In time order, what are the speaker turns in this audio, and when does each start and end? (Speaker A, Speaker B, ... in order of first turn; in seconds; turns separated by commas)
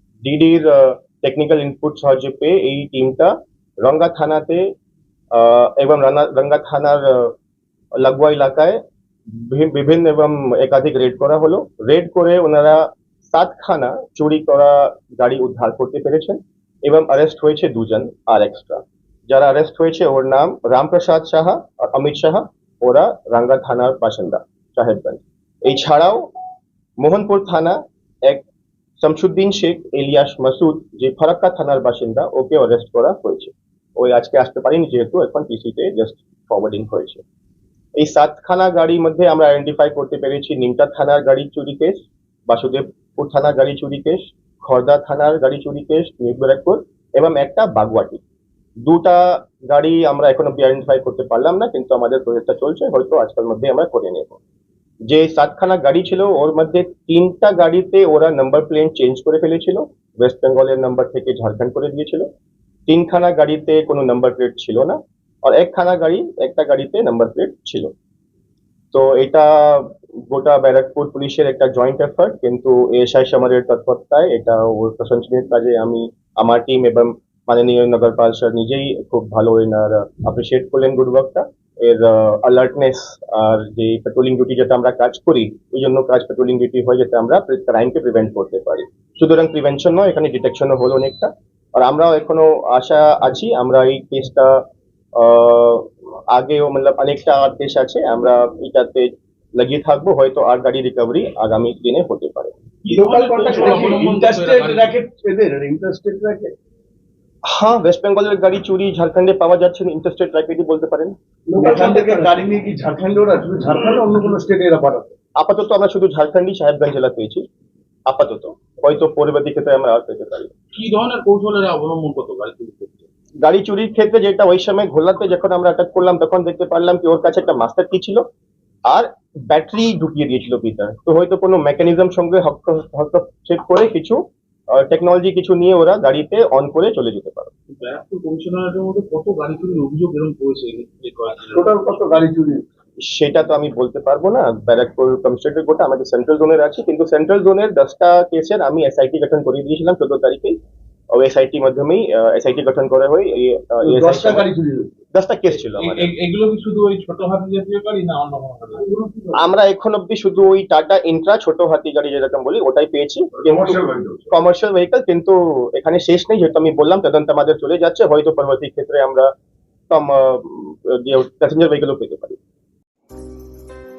Speaker A: 0.2-4.6, Speaker A: 5.3-7.3, Speaker A: 8.0-8.8, Speaker A: 9.4-26.2, Speaker A: 27.0-28.4, Speaker A: 29.0-37.2, Speaker A: 38.0-48.2, Speaker A: 48.8-54.4, Speaker A: 55.1-62.3, Speaker A: 62.9-67.9, Speaker A: 68.9-94.6, Speaker A: 95.2-102.5, Speaker B: 102.8-105.0, Speaker C: 102.9-106.5, Speaker A: 107.5-111.1, Speaker C: 111.5-115.1, Speaker B: 111.6-112.4, Speaker A: 115.4-117.4, Speaker A: 118.1-120.5, Speaker B: 120.7-123.0, Speaker A: 123.4-128.2, Speaker A: 128.9-134.2, Speaker A: 134.8-137.5, Speaker B: 137.7-142.2, Speaker C: 141.5-142.6, Speaker A: 143.0-150.6, Speaker A: 151.1-154.5, Speaker C: 153.8-154.9, Speaker A: 155.1-156.1, Speaker B: 155.7-158.9, Speaker A: 159.3-169.3, Speaker C: 163.4-164.3, Speaker A: 169.9-172.4